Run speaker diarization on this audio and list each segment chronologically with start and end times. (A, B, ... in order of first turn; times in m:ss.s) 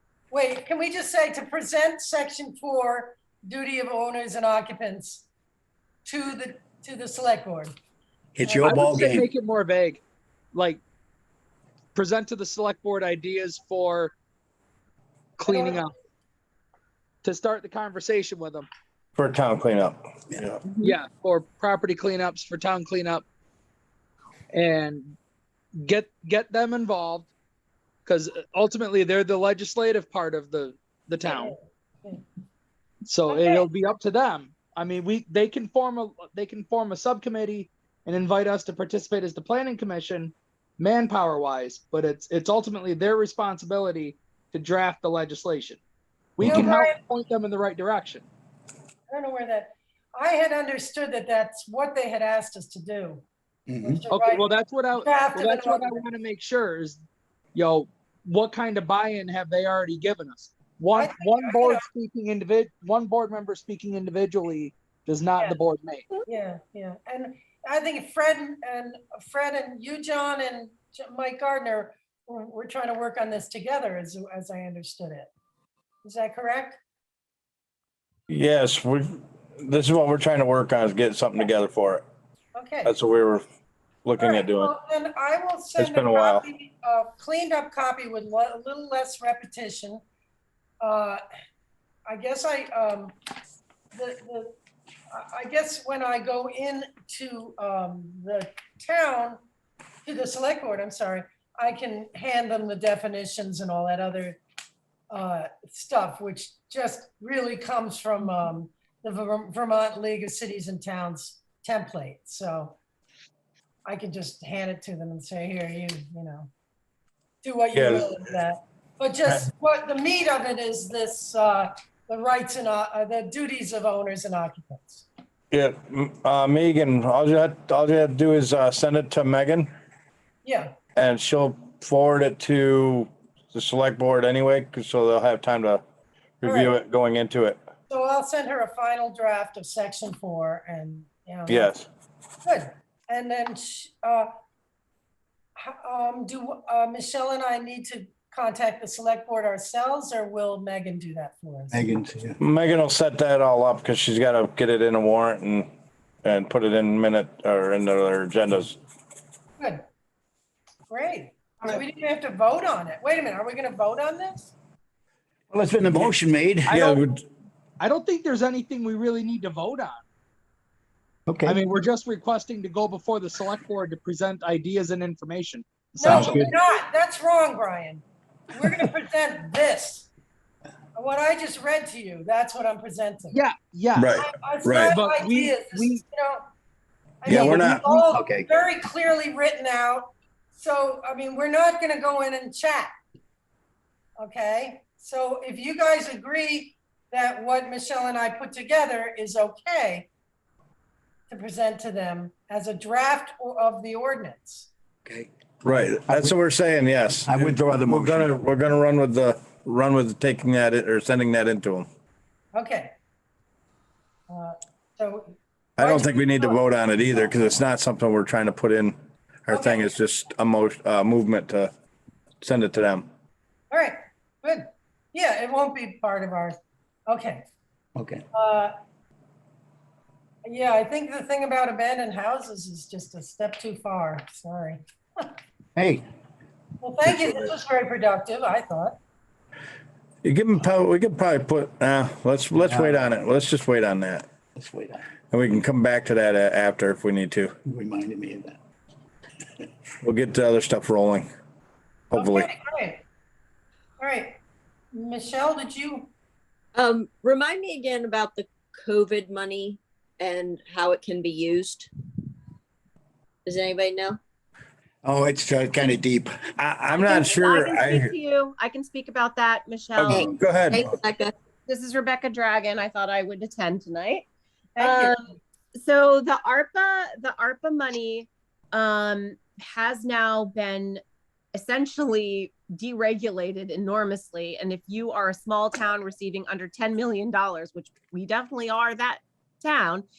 0:00.3-0:05.3 A
0:06.0-0:07.7 A
0:08.4-0:09.3 B
0:08.4-0:09.0 A
0:08.6-0:10.0 C
0:10.5-0:10.8 C
0:12.0-0:14.2 C
0:15.4-0:15.9 C
0:15.5-0:15.8 A
0:17.2-0:18.7 C
0:19.2-0:20.6 D
0:20.8-0:23.2 C
0:24.5-0:25.2 C
0:25.8-0:27.3 C
0:28.1-0:31.6 C
0:31.2-0:32.2 A
0:33.0-0:45.8 C
0:33.3-0:33.7 A
0:46.4-0:48.3 C
0:46.4-0:46.7 B
0:46.5-0:47.0 A
0:49.1-0:53.2 A
0:53.7-0:54.0 B
0:53.8-0:56.1 A
0:54.1-0:57.0 C
0:57.5-1:06.1 C
1:00.9-1:01.8 A
1:06.3-1:15.3 A
1:16.0-1:16.8 A
1:18.3-1:22.0 D
1:22.6-1:22.9 A
1:22.8-1:23.4 D
1:24.0-1:24.7 D
1:24.2-1:30.0 A
1:25.8-1:26.5 D
1:30.8-1:31.2 A
1:32.1-1:33.2 A
1:33.9-1:34.5 A
1:35.1-1:39.4 A
1:40.0-1:44.4 A
1:45.1-1:52.8 A
1:53.9-1:56.5 A
1:57.4-2:05.1 A
1:57.7-1:58.1 D
2:05.5-2:09.7 D
2:10.4-2:10.7 A
2:11.0-2:15.8 D
2:16.4-2:17.6 D
2:16.4-2:16.8 A
2:17.9-2:21.7 A
2:21.5-2:21.9 D
2:22.4-2:24.3 A
2:25.6-2:31.8 A
2:31.7-2:32.4 B
2:32.4-2:35.7 D
2:36.2-2:38.8 D
2:40.9-2:44.5 A
2:45.5-2:46.7 B
2:46.7-2:47.1 C
2:46.7-2:47.2 D
2:47.8-2:50.0 C
2:51.3-2:51.6 B
2:51.5-2:56.5 C
2:56.0-3:00.1 A
2:56.0-2:56.5 B
3:01.0-3:03.4 A
3:03.3-3:04.2 C
3:04.0-3:05.0 D
3:04.2-3:06.4 A
3:04.9-3:06.0 C
3:07.2-3:12.9 A
3:07.3-3:07.8 D
3:07.4-3:08.5 B
3:14.2-3:20.1 A
3:21.3-3:24.7 A
3:25.1-3:26.3 B
3:25.6-3:31.9 D
3:27.3-3:28.3 B
3:32.5-3:32.9 A
3:34.3-3:36.6 A
3:35.8-3:39.0 D
3:39.5-3:41.7 D
3:39.5-3:39.9 A
3:42.4-3:43.1 D
3:43.7-3:46.6 A
3:47.1-3:47.4 A
3:48.0-3:48.2 B
3:48.3-3:48.7 A
3:50.4-3:55.3 A
3:55.8-3:56.0 B
3:56.8-3:59.0 A
4:00.2-4:04.2 D
4:02.6-4:03.1 B
4:04.6-4:05.0 B
4:05.3-4:07.5 D
4:07.7-4:08.6 B
4:10.0-4:11.3 D
4:12.1-4:12.5 D
4:12.1-4:13.0 A
4:14.0-4:14.4 A
4:14.9-4:16.1 A
4:16.8-4:21.9 E
4:23.5-4:24.2 E
4:25.0-4:26.4 B
4:26.6-4:28.1 D
4:26.9-4:30.3 F
4:30.0-4:30.9 D
4:30.1-4:31.3 E
4:31.7-4:34.3 F
4:34.8-4:35.2 A
4:34.8-4:41.0 F
4:41.5-4:50.0 F